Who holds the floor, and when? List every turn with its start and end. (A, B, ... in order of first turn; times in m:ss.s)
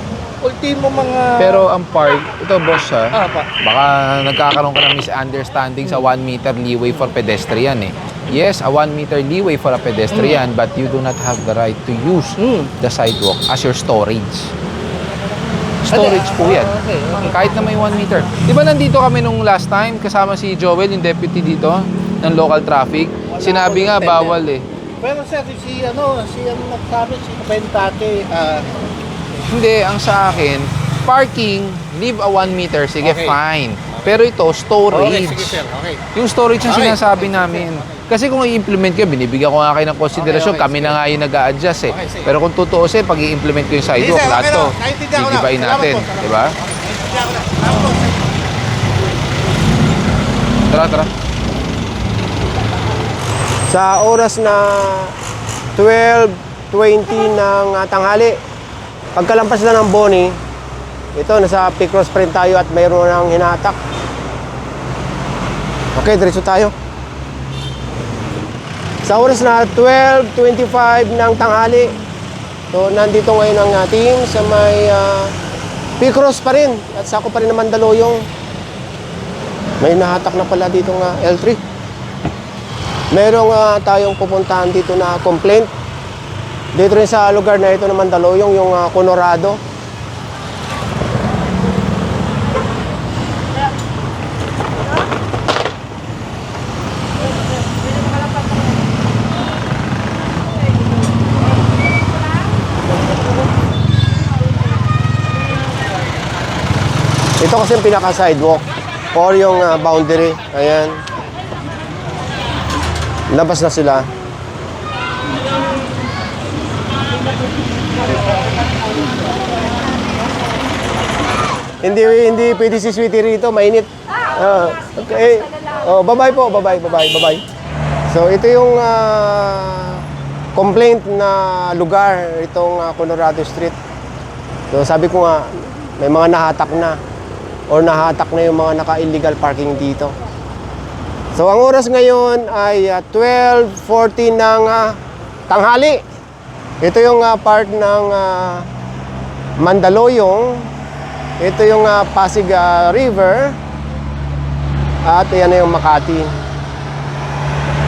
0:00.4-0:01.7 A
0:01.4-0:14.5 B
0:03.2-0:03.5 A
0:10.1-0:10.4 A
0:12.4-0:12.7 A
0:15.8-0:24.6 B
0:15.9-0:17.5 A
0:23.3-0:24.4 A
0:25.0-0:28.7 A
0:29.5-0:46.6 B
0:33.0-0:33.4 A
0:34.9-0:36.0 A
0:36.7-0:37.9 A
0:40.2-0:41.0 A
0:42.0-0:42.3 A
0:43.9-0:48.2 A
0:50.7-0:51.1 B
0:53.7-0:55.1 C
0:55.8-0:58.4 C
0:59.2-1:00.4 C
1:01.2-1:03.8 C
1:06.0-1:06.7 C
1:09.0-1:12.0 C
1:12.7-1:15.3 C
1:16.0-1:18.3 C
1:19.8-1:21.6 C
1:23.1-1:25.7 C
1:26.8-1:29.6 C
1:47.4-1:51.0 C
1:53.3-1:54.1 C
2:01.8-2:07.4 C
2:08.1-2:13.8 C
2:14.7-2:17.0 C
2:17.7-2:20.2 C
2:21.4-2:25.0 C
2:25.5-2:26.0 C
2:26.8-2:28.7 C
2:29.6-2:30.7 C
2:31.4-2:33.6 C
2:35.1-2:36.3 C